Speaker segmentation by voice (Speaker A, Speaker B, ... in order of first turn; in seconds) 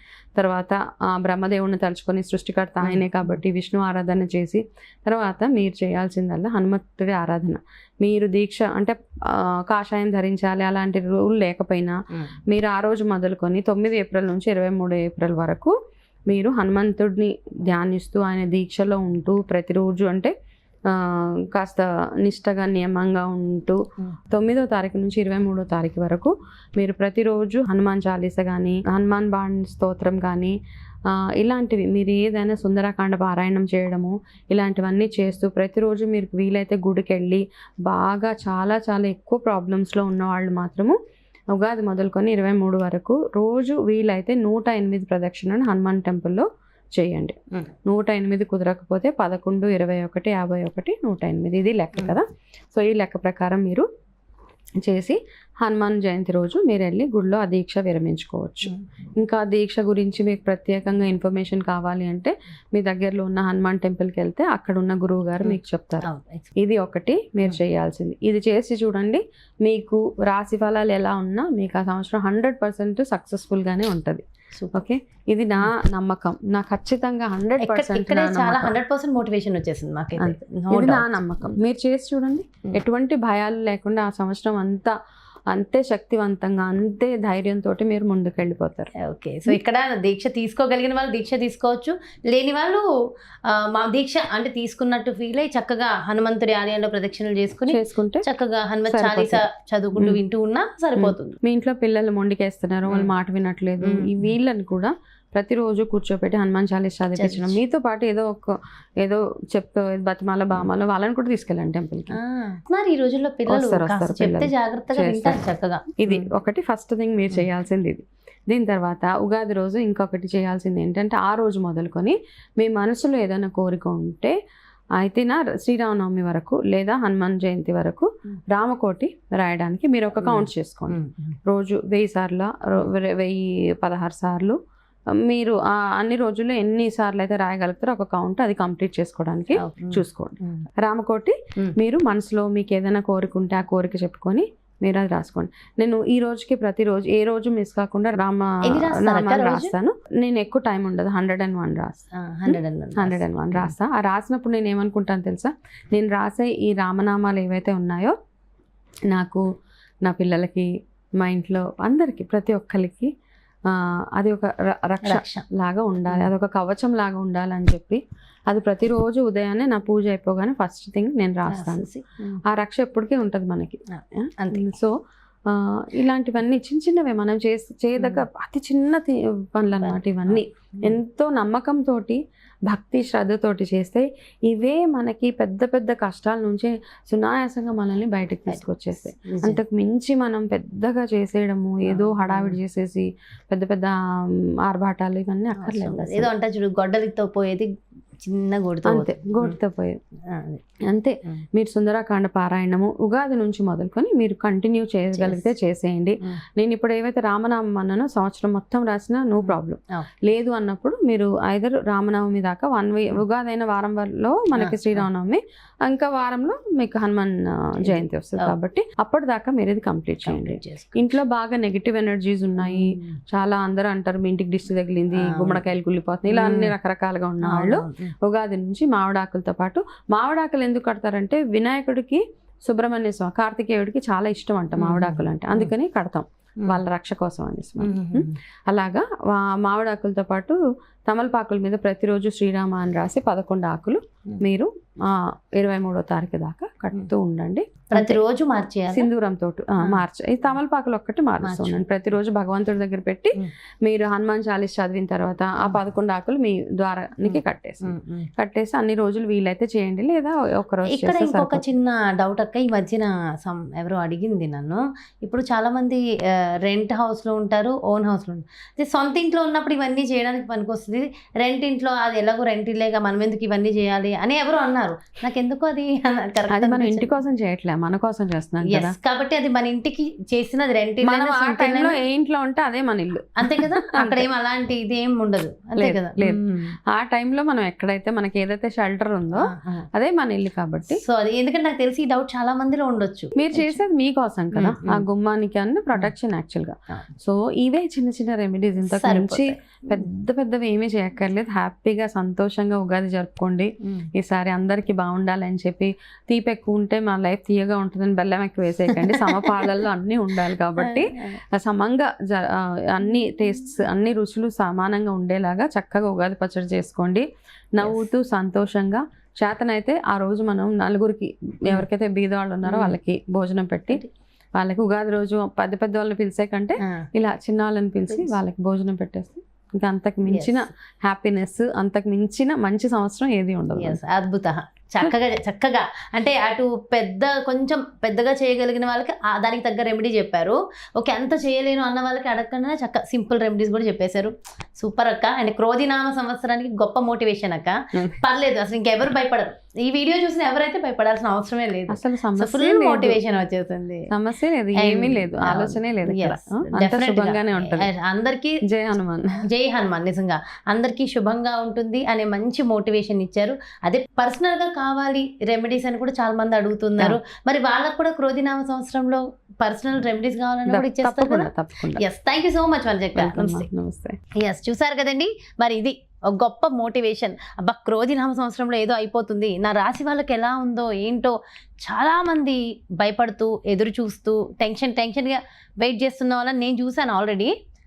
Speaker A: 0.3-11.9, 12.5-15.7, 16.3-20.3, 20.9-30.5, 31.1-40.9, 41.5-53.9, 54.8-66.0, 66.6-74.2, 74.7-78.7, 80.2-84.9, 85.5-88.9, 97.7-98.2, 98.9-99.4, 101.0-112.2, 113.5-115.4, 116.0-124.3, 125.0-134.6, 135.2-158.1, 159.1-159.4, 160.0-163.1, 163.7-171.9, 172.5-174.9, 175.5-193.9, 194.6-196.3, 198.8-200.0, 200.9-248.2, 248.9-261.7, 276.5-278.9, 281.0-284.3, 285.8-291.0, 293.4-324.0, 324.6-334.0, 351.9-353.2, 354.1-357.9, 358.7-359.4, 370.7-372.0, 373.2-374.1
Speaker B: 2.8-3.4, 65.4-66.5, 74.5-74.8, 77.6-81.6, 89.0-92.8, 93.5-101.3, 103.8-104.3, 107.2-107.6, 112.1-116.3, 130.2-131.3, 139.6-140.7, 148.6-149.7, 152.2-153.7, 165.0-165.4, 171.5-172.4, 173.9-174.7, 178.0-178.2, 179.8-180.9, 188.5-189.6, 191.8-192.6, 195.6-199.6, 200.3-200.6, 205.1-205.5, 209.4-210.1, 214.6-215.1, 217.9-218.6, 220.2-221.0, 222.6-223.2, 225.1-225.6, 226.3-226.7, 227.4-228.1, 234.8-235.7, 237.8-238.3, 247.9-249.1, 251.4-251.8, 257.2-258.3, 260.9-266.0, 266.6-277.1, 278.7-282.0, 283.4-286.6, 289.3-289.9, 290.9-293.8, 294.5-295.0, 298.8-300.1, 308.9-309.7, 310.8-311.4, 317.8-318.1, 322.6-323.0, 328.1-328.4, 330.3-330.6, 333.8-354.1, 354.8-358.6, 359.5-373.7, 374.4-387.5